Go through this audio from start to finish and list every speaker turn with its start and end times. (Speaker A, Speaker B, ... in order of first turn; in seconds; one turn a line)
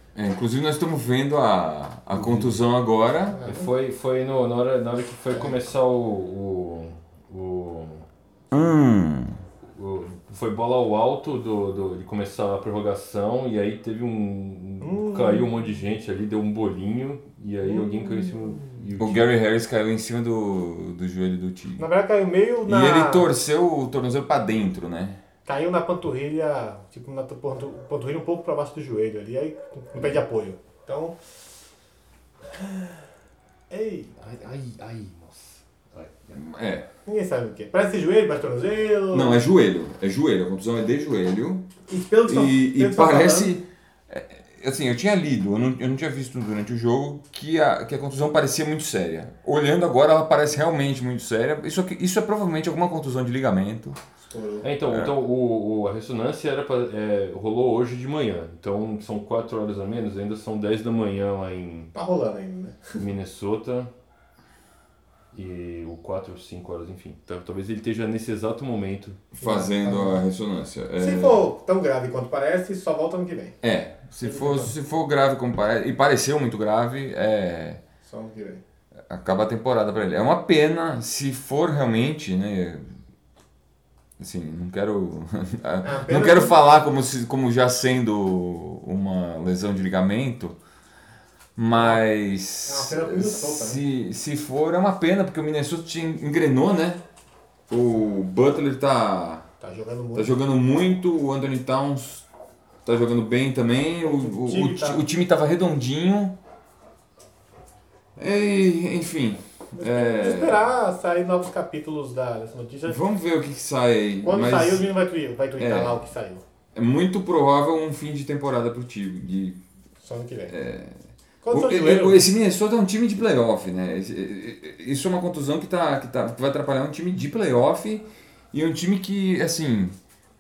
Speaker A: 0.1-3.4
Speaker B: 2.1-2.6
Speaker C: 3.3-3.7
Speaker B: 3.5-8.1
Speaker A: 8.5-9.4
Speaker B: 9.7-19.2
Speaker C: 14.8-15.5
Speaker C: 17.6-18.8
Speaker A: 19.0-21.9
Speaker C: 21.8-23.3
Speaker A: 22.7-25.2
Speaker C: 25.5-31.2
Speaker C: 32.5-33.0
Speaker C: 33.7-34.2
Speaker B: 34.2-36.4
Speaker A: 36.4-36.9
Speaker C: 37.1-39.5
Speaker A: 39.1-41.7
Speaker C: 41.9-43.5
Speaker A: 42.3-54.0
Speaker C: 54.2-54.7
Speaker B: 54.6-61.9
Speaker A: 54.9-55.1
Speaker C: 61.9-62.9
Speaker B: 63.0-63.9
Speaker B: 65.3-69.2
Speaker A: 69.3-71.4
Speaker C: 69.4-70.2
Speaker C: 71.0-73.6
Speaker A: 73.6-77.8
Speaker C: 74.2-74.7
Speaker C: 78.0-78.6
Speaker A: 79.1-82.8
Speaker A: 84.2-90.6
Speaker C: 85.8-86.6
Speaker A: 91.6-97.0
Speaker C: 91.7-92.0
Speaker C: 92.7-93.8
Speaker A: 97.7-99.5
Speaker C: 99.6-100.3
Speaker A: 100.2-102.3
Speaker A: 102.8-106.4
Speaker C: 104.0-105.0
Speaker A: 108.2-110.6
Speaker C: 109.7-113.0
Speaker A: 112.9-114.9
Speaker C: 114.2-116.4
Speaker A: 115.6-116.0
Speaker A: 116.8-119.6
Speaker C: 120.0-120.5
Speaker A: 120.5-121.0
Speaker C: 121.4-122.2
Speaker A: 121.5-130.0